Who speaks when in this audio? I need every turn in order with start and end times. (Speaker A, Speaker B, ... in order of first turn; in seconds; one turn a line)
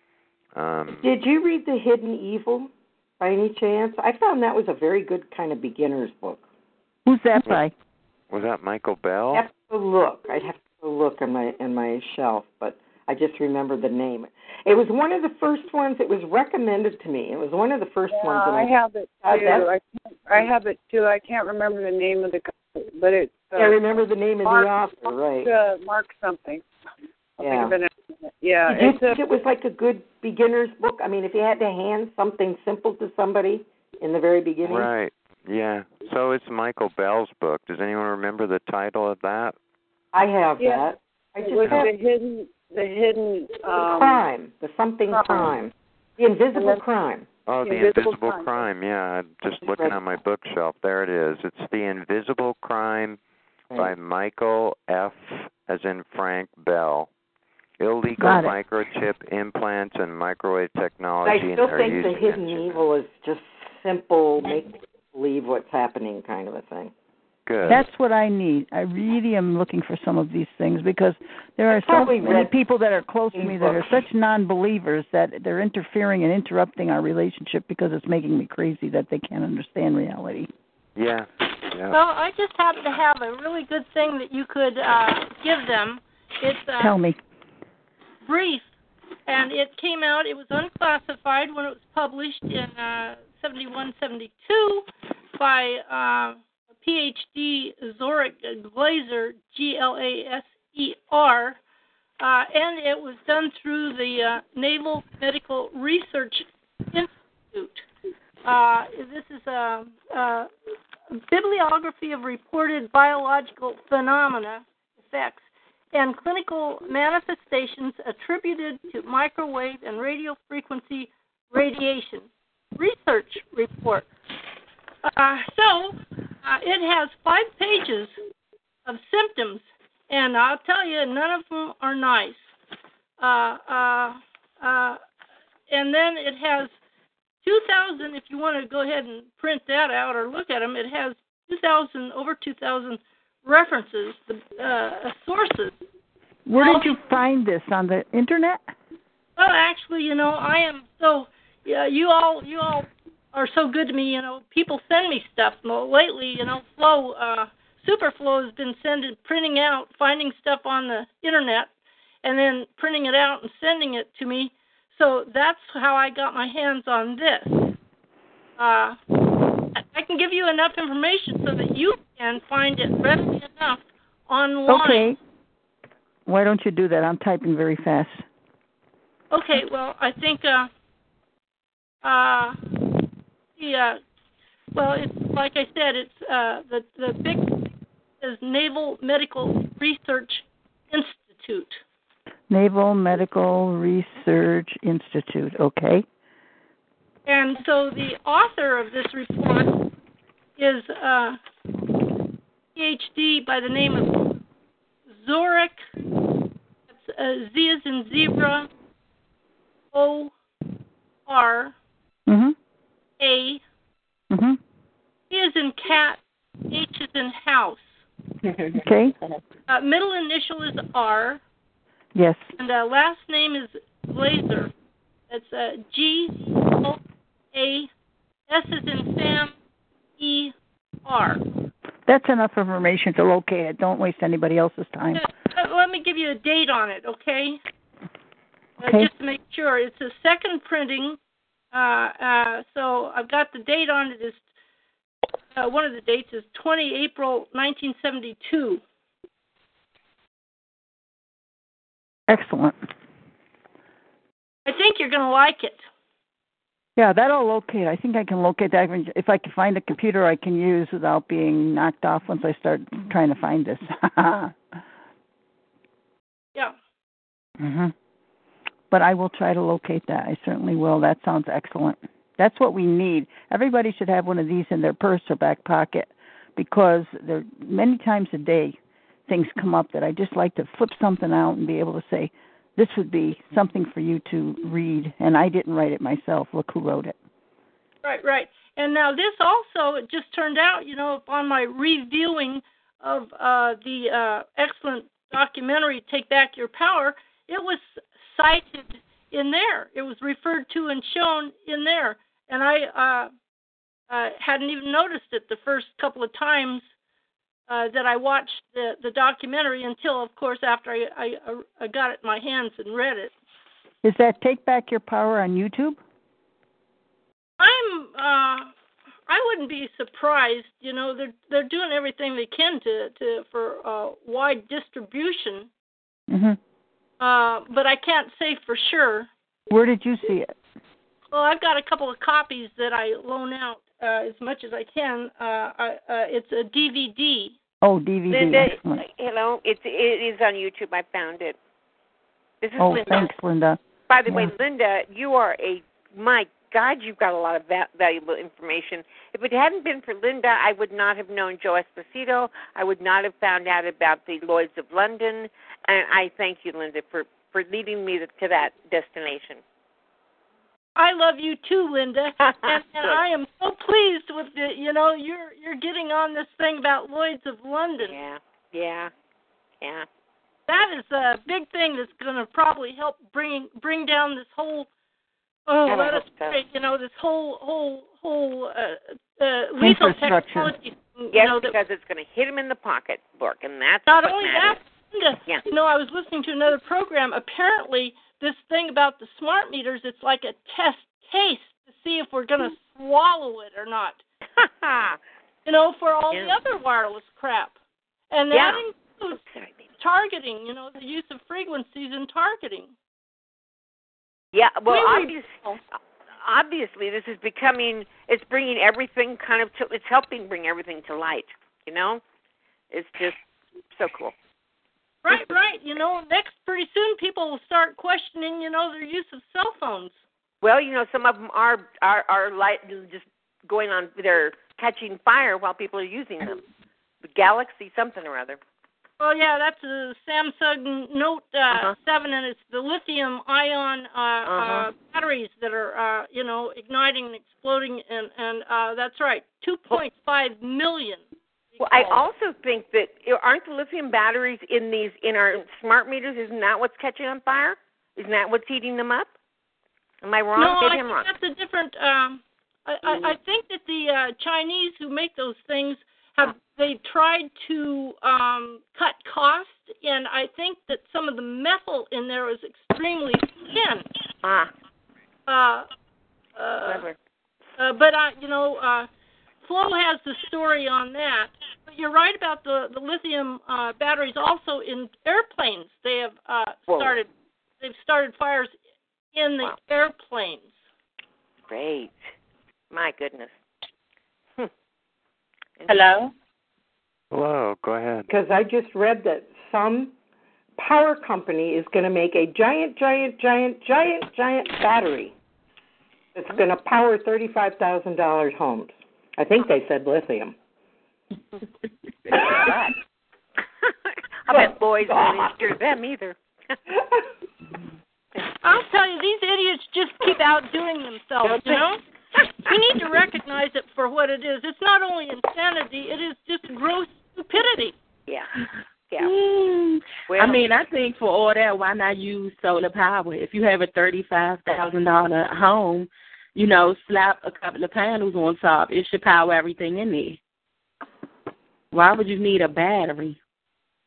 Speaker A: 0.6-1.1
Speaker B: 0.9-6.4
Speaker C: 7.0-7.7
Speaker A: 8.3-9.4
Speaker B: 9.3-18.7
Speaker D: 18.1-23.8
Speaker B: 19.2-19.7
Speaker B: 23.6-25.5
Speaker D: 24.4-26.6
Speaker D: 27.4-27.9
Speaker B: 27.4-27.7
Speaker D: 28.4-29.2
Speaker B: 28.7-34.9
Speaker A: 34.6-39.5
Speaker B: 40.1-41.9
Speaker D: 40.6-40.9
Speaker D: 41.4-44.2
Speaker B: 43.7-47.3
Speaker D: 45.1-45.6
Speaker D: 46.5-46.8
Speaker A: 47.5-53.2
Speaker D: 47.6-48.5
Speaker B: 49.6-50.0
Speaker A: 53.8-57.1
Speaker A: 57.8-62.8
Speaker C: 58.2-58.5
Speaker B: 61.2-66.9
Speaker A: 67.5-67.8
Speaker C: 67.7-80.5
Speaker B: 71.7-72.5
Speaker B: 73.3-74.0
Speaker A: 81.0-82.0
Speaker E: 81.9-87.0
Speaker C: 86.8-87.2
Speaker E: 88.2-88.7
Speaker E: 89.3-101.6
Speaker E: 102.2-107.8
Speaker E: 108.4-110.5
Speaker E: 111.1-124.1
Speaker E: 125.0-128.2
Speaker E: 128.9-132.5
Speaker E: 133.2-135.0
Speaker E: 135.7-136.7
Speaker E: 137.4-145.8
Speaker C: 146.4-148.7
Speaker E: 146.6-146.9
Speaker E: 149.4-161.7
Speaker E: 162.2-167.7
Speaker E: 168.6-169.0
Speaker E: 169.7-175.1
Speaker C: 174.7-175.2
Speaker C: 176.3-178.2
Speaker E: 179.3-180.7
Speaker E: 182.0-182.7
Speaker E: 183.6-184.0
Speaker E: 184.7-191.8
Speaker C: 192.5-196.1
Speaker E: 197.3-199.9
Speaker E: 200.6-201.4
Speaker E: 202.7-204.4
Speaker E: 205.2-205.8
Speaker E: 206.9-208.7
Speaker E: 209.9-210.3
Speaker E: 211.3-211.7
Speaker C: 212.3-212.6
Speaker E: 213.2-213.6
Speaker C: 214.3-214.6
Speaker E: 215.3-218.0
Speaker F: 218.4-219.4
Speaker C: 218.8-219.1
Speaker E: 219.7-221.4
Speaker C: 222.1-222.5
Speaker E: 222.6-224.7
Speaker E: 225.3-227.0
Speaker E: 227.5-227.9
Speaker E: 228.5-229.5
Speaker E: 230.2-230.5
Speaker E: 231.0-231.4
Speaker C: 232.1-235.2
Speaker E: 235.1-237.6
Speaker E: 238.8-241.2
Speaker C: 238.8-239.1
Speaker E: 241.7-244.4
Speaker E: 245.5-248.8
Speaker C: 252.3-252.8
Speaker E: 254.7-255.8
Speaker C: 257.0-264.5
Speaker C: 267.6-267.9
Speaker C: 268.9-287.1
Speaker E: 288.0-303.3
Speaker E: 304.1-306.8
Speaker E: 307.7-313.3
Speaker C: 314.0-316.0
Speaker E: 317.6-318.7
Speaker E: 319.3-325.7
Speaker C: 326.3-326.6
Speaker E: 327.2-329.3
Speaker C: 329.7-330.5
Speaker E: 331.3-337.6
Speaker C: 337.8-339.0
Speaker G: 338.3-341.6
Speaker G: 342.6-343.4
Speaker C: 342.8-344.5
Speaker G: 344.1-359.6
Speaker E: 361.0-368.2
Speaker G: 362.4-363.2
Speaker G: 368.0-369.1
Speaker G: 369.8-370.1
Speaker E: 370.7-374.9
Speaker E: 375.7-381.8
Speaker G: 375.9-376.6
Speaker C: 379.8-380.7
Speaker G: 381.3-384.8
Speaker E: 384.1-394.2
Speaker G: 394.6-395.2
Speaker E: 395.7-397.8
Speaker G: 396.3-396.6
Speaker E: 398.3-399.4
Speaker G: 398.5-398.8
Speaker E: 400.0-402.9
Speaker G: 404.5-405.7
Speaker E: 404.9-405.8
Speaker G: 406.4-412.2
Speaker G: 412.9-413.4
Speaker G: 413.9-414.3
Speaker E: 415.2-420.1
Speaker G: 420.6-426.6
Speaker G: 427.2-428.6
Speaker E: 429.2-441.2
Speaker G: 431.7-432.0
Speaker G: 434.5-434.9
Speaker G: 441.8-449.3
Speaker E: 441.8-442.2
Speaker G: 450.2-451.3
Speaker E: 450.6-464.1
Speaker G: 464.4-464.7
Speaker E: 465.5-465.9
Speaker E: 466.6-467.1
Speaker G: 466.8-467.1
Speaker E: 467.8-469.1
Speaker E: 469.6-477.3
Speaker G: 476.9-477.2
Speaker E: 477.8-478.7
Speaker E: 479.3-480.7
Speaker G: 481.7-482.3
Speaker G: 482.9-483.5
Speaker F: 485.9-486.3
Speaker A: 487.3-488.3
Speaker B: 488.3-490.1
Speaker B: 490.8-495.3
Speaker B: 496.3-500.6
Speaker G: 502.3-502.9
Speaker G: 504.4-506.4
Speaker B: 504.5-505.6
Speaker E: 508.6-512.0
Speaker G: 511.4-511.8
Speaker E: 512.7-517.9
Speaker F: 519.2-530.4
Speaker G: 520.3-520.6
Speaker F: 531.9-533.4